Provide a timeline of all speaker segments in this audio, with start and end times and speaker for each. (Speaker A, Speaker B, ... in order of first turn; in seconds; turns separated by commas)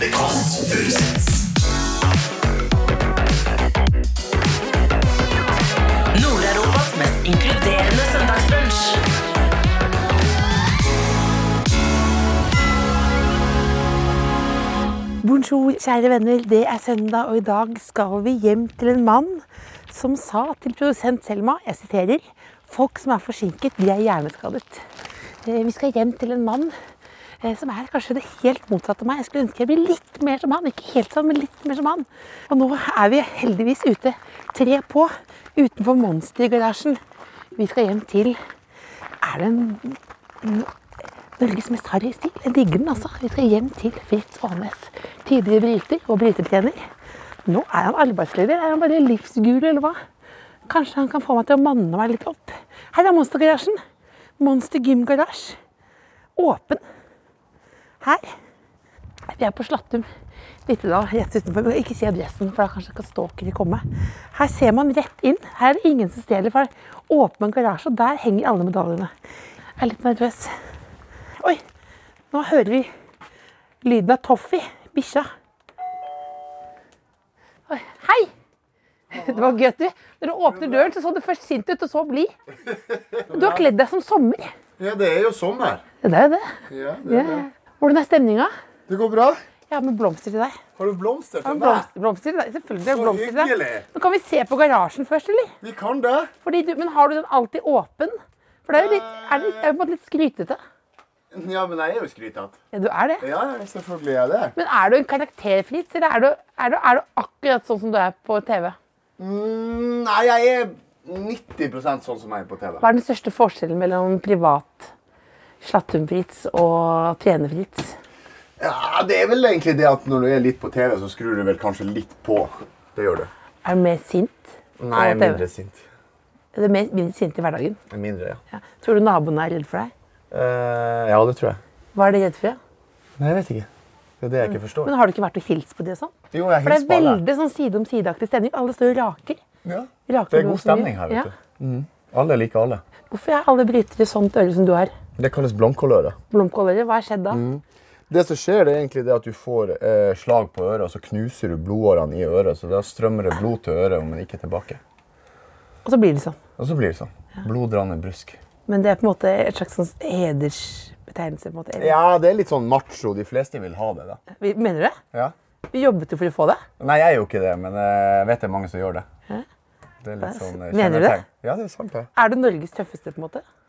Speaker A: 0.1-1.0, Speaker A: 6.1-9.0, Speaker B: 15.2-24.8, Speaker B: 25.4-26.7, Speaker B: 27.4-37.0, Speaker B: 37.5-38.4, Speaker B: 39.2-40.7, Speaker B: 41.4-46.8, Speaker B: 47.5-50.0, Speaker B: 50.7-53.8, Speaker B: 54.4-55.6, Speaker B: 56.4-56.8, Speaker B: 58.0-58.3, Speaker B: 59.3-60.1, Speaker B: 60.7-69.1, Speaker B: 69.8-70.5, Speaker B: 72.3-72.9, Speaker B: 73.8-75.3, Speaker B: 77.7-78.3, Speaker C: 79.1-79.5, Speaker B: 79.1-82.3, Speaker C: 80.5-80.8, Speaker C: 82.7-83.6, Speaker B: 83.3-84.5, Speaker C: 84.8-85.8, Speaker B: 86.0-86.5, Speaker C: 86.7-87.4, Speaker B: 87.1-88.5, Speaker C: 88.9-89.4, Speaker B: 89.7-90.6, Speaker C: 90.8-91.9, Speaker B: 91.4-95.5, Speaker C: 92.8-93.9, Speaker C: 95.6-96.3, Speaker B: 96.4-100.6, Speaker C: 98.7-99.7, Speaker C: 101.3-102.6, Speaker B: 102.7-103.2, Speaker C: 103.2-104.5, Speaker B: 104.5-108.8, Speaker C: 109.2-112.8, Speaker B: 112.8-114.9, Speaker B: 115.6-117.9, Speaker C: 118.6-123.3, Speaker B: 123.6-125.4, Speaker C: 124.8-125.8, Speaker B: 126.5-127.8, Speaker C: 127.9-128.4, Speaker B: 128.5-129.9, Speaker C: 130.3-131.6, Speaker B: 131.9-132.6, Speaker C: 133.2-133.7, Speaker C: 134.2-134.9, Speaker B: 134.5-139.4, Speaker C: 136.3-137.2, Speaker C: 139.6-142.8, Speaker B: 140.1-141.3, Speaker B: 143.1-144.9, Speaker C: 145.2-146.2, Speaker B: 146.3-147.4, Speaker C: 147.3-154.8, Speaker B: 155.8-156.4, Speaker C: 156.6-158.4, Speaker B: 158.7-161.9, Speaker C: 161.8-164.2, Speaker B: 164.4-165.0, Speaker B: 165.7-166.6, Speaker C: 166.8-169.1, Speaker C: 170.0-172.1, Speaker B: 170.2-171.2, Speaker B: 172.2-173.4